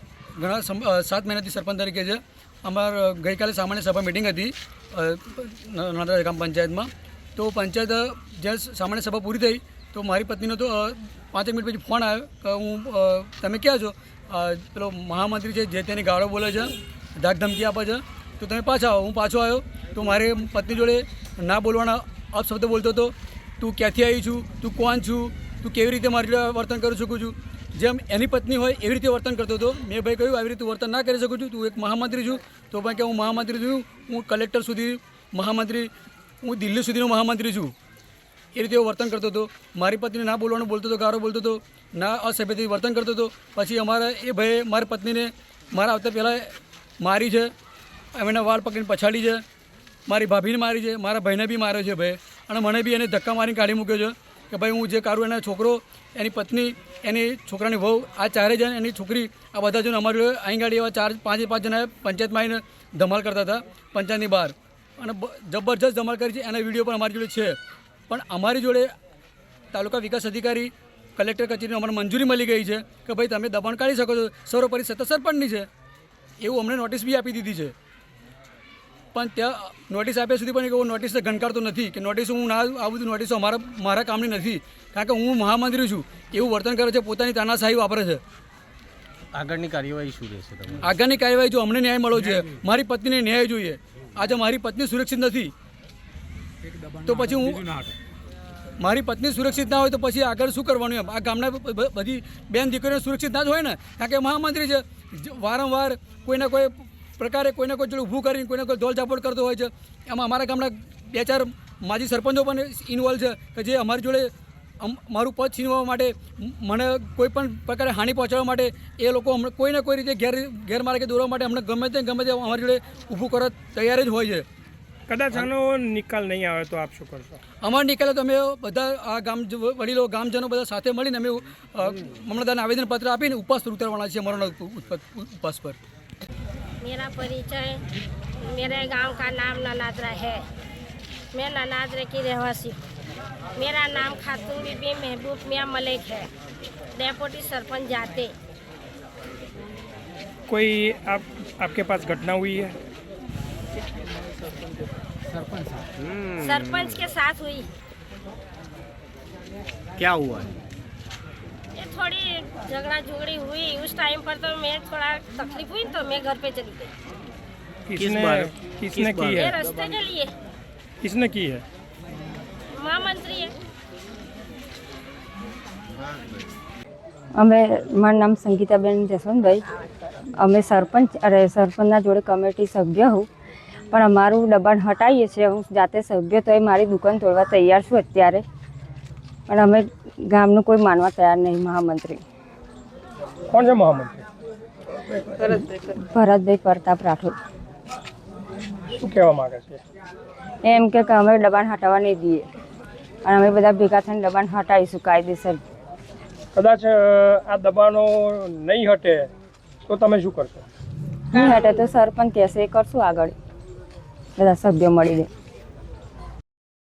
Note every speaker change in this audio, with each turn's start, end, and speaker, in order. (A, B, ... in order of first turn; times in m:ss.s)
0:00.4-0:35.9 A
0:36.4-0:37.7 A
0:38.5-0:47.5 A
0:48.1-0:49.4 A
0:50.1-1:07.6 A
1:08.1-1:08.9 A
1:09.7-1:15.7 A
1:16.4-1:17.7 A
1:19.1-1:28.2 A
1:29.3-1:30.8 B
1:30.8-1:35.5 A
1:37.0-1:37.8 A
1:38.8-2:04.4 A
2:05.1-2:07.4 C
2:07.6-2:15.8 A
2:16.8-2:17.8 D
2:18.4-2:20.4 D
2:21.3-2:22.8 D
2:23.6-2:26.3 D
2:27.0-2:28.3 D
2:30.5-2:32.7 C
2:36.0-2:37.0 B
2:36.4-2:37.7 D
2:40.0-2:40.5 B
2:41.7-2:46.9 D
2:47.9-2:49.6 C
2:48.0-2:49.4 B
2:49.4-2:50.3 D
2:51.0-2:51.6 C
2:52.7-2:53.5 D
2:57.4-2:59.6 E
3:00.4-3:03.3 E
3:03.9-3:08.4 E
3:09.5-3:12.2 E
3:13.5-3:14.2 C
3:15.3-3:15.6 C
3:15.8-3:17.3 E
3:19.0-3:19.8 C
3:20.6-3:22.5 E
3:23.2-3:25.6 E
3:26.5-3:29.3 C
3:29.8-3:30.6 C
3:31.3-3:33.3 E
3:34.4-3:35.3 E